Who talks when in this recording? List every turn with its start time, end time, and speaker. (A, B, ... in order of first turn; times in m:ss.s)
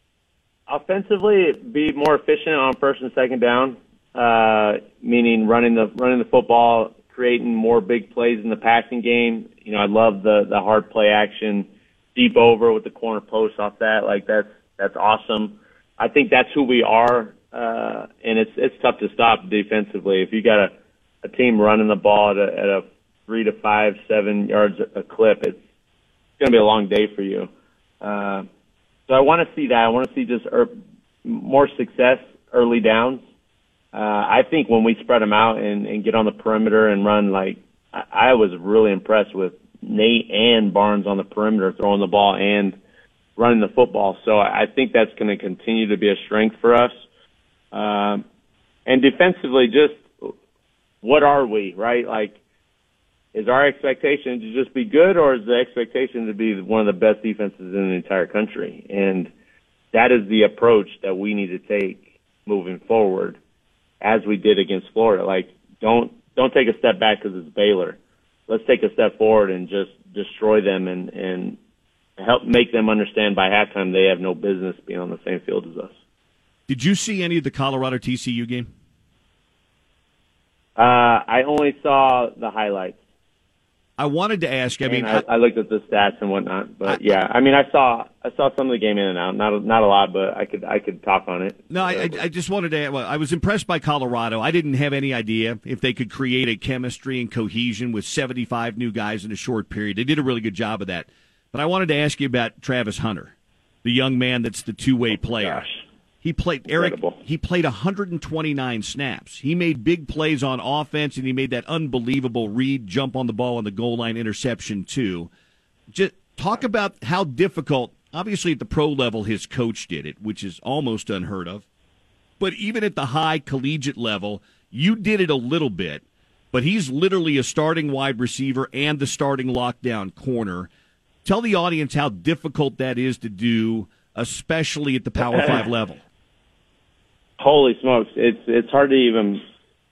0:00.7-0:20.7 A
0:21.2-0:25.6 A
0:26.4-0:27.5 A
0:28.0-0:28.4 A
0:29.1-0:30.7 A
0:31.2-0:33.2 A
0:33.9-0:42.8 A
0:43.4-0:47.0 A
0:47.7-0:48.2 A
0:48.8-0:50.3 A
0:51.0-0:52.4 A
0:53.3-0:59.3 A
0:59.9-1:03.4 A
1:04.0-1:11.6 A
1:12.2-1:15.9 A
1:16.7-1:18.7 B
1:20.8-1:23.0 A
1:24.0-1:25.2 B
1:24.8-1:32.2 A
1:31.7-1:43.3 B
1:43.8-1:45.6 B
1:45.1-1:45.8 A
1:46.2-1:55.3 B
1:46.7-1:47.2 A
1:55.9-2:01.6 B
2:02.4-2:10.7 B
2:11.2-2:16.0 B
2:15.2-2:15.6 A
2:17.4-2:19.4 A